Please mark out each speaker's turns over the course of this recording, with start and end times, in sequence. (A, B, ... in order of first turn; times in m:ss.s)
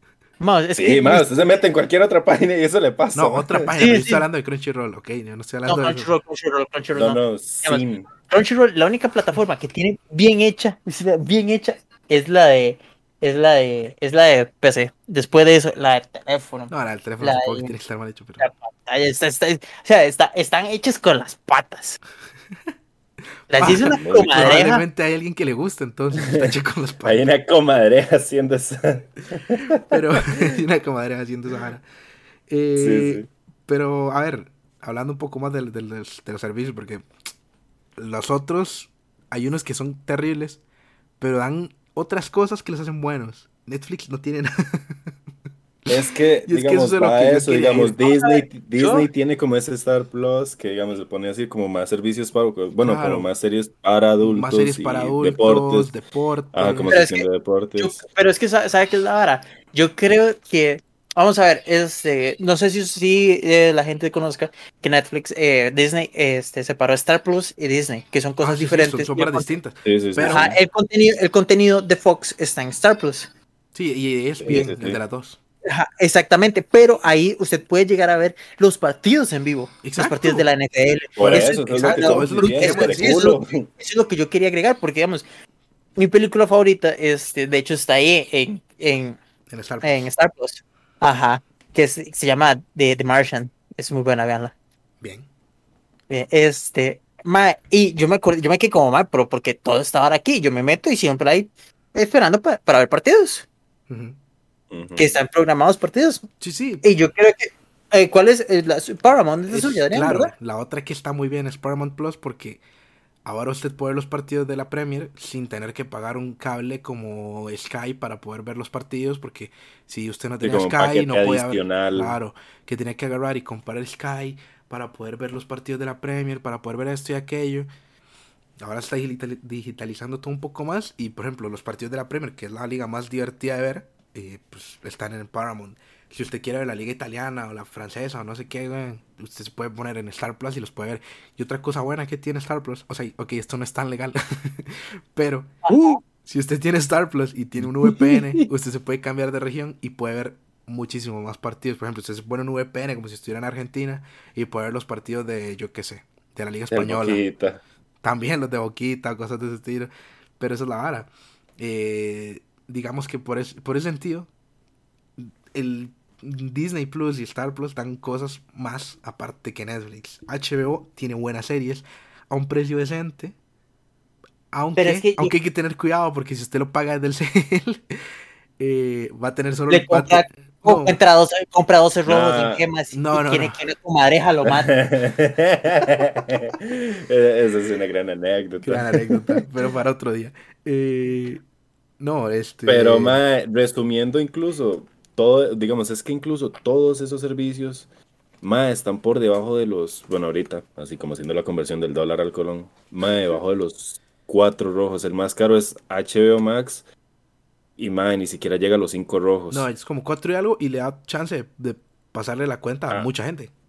0:00.4-0:01.3 A
0:00.8-0:03.8 B
0:03.1-0:06.1 C
0:03.8-0:04.2 A
0:05.7-0:17.8 A
0:06.9-0:08.1 B
0:16.7-0:18.5 C
0:18.4-0:22.0 A
0:23.5-0:24.8 A
0:23.6-0:27.2 C
0:23.6-0:24.6 B
0:26.2-0:26.5 B
0:27.0-0:30.5 B
0:29.7-0:31.8 C
0:32.5-0:37.1 C
0:32.8-0:33.3 B
0:38.0-0:40.6 C
0:41.2-0:45.1 C
0:45.9-0:48.0 C
0:45.9-0:55.9 B
0:48.0-0:49.1 A
0:52.8-0:53.3 C
0:54.2-0:57.0 C
0:56.5-0:58.0 B
0:56.9-1:09.5 A
1:08.4-1:10.6 C
1:09.9-1:10.6 B
1:10.3-1:13.3 A
1:13.7-1:15.4 C
1:14.4-1:15.0 B
1:15.7-1:25.2 A
1:19.8-1:20.5 C
1:21.2-1:23.7 B
1:21.2-1:23.3 C
1:26.0-1:29.2 A
1:29.5-1:30.0 C
1:29.8-1:34.5 A
1:35.0-1:35.3 C
1:36.1-1:43.5 A
1:43.9-1:44.2 C
1:44.7-1:45.2 B
1:45.0-1:46.3 A
1:46.4-1:46.8 C
1:46.8-1:50.3 A
1:49.5-1:52.6 C
1:53.2-2:07.7 C
2:00.4-2:02.2 B
2:08.6-2:37.2 C
2:25.7-2:26.0 A
2:27.8-2:28.5 B
2:36.7-2:37.6 B
2:38.0-2:44.3 C
2:45.2-2:53.4 C
2:54.5-2:58.0 C
2:54.8-2:55.4 A
2:58.6-3:01.0 C
2:59.7-3:04.7 A
3:02.1-3:02.6 B
3:02.9-3:03.6 C
3:04.4-3:09.4 B
3:08.6-3:11.4 C
3:12.0-3:13.2 C
3:12.7-3:17.9 B
3:18.4-3:26.8 B
3:27.8-3:29.7 B
3:29.5-3:33.5 C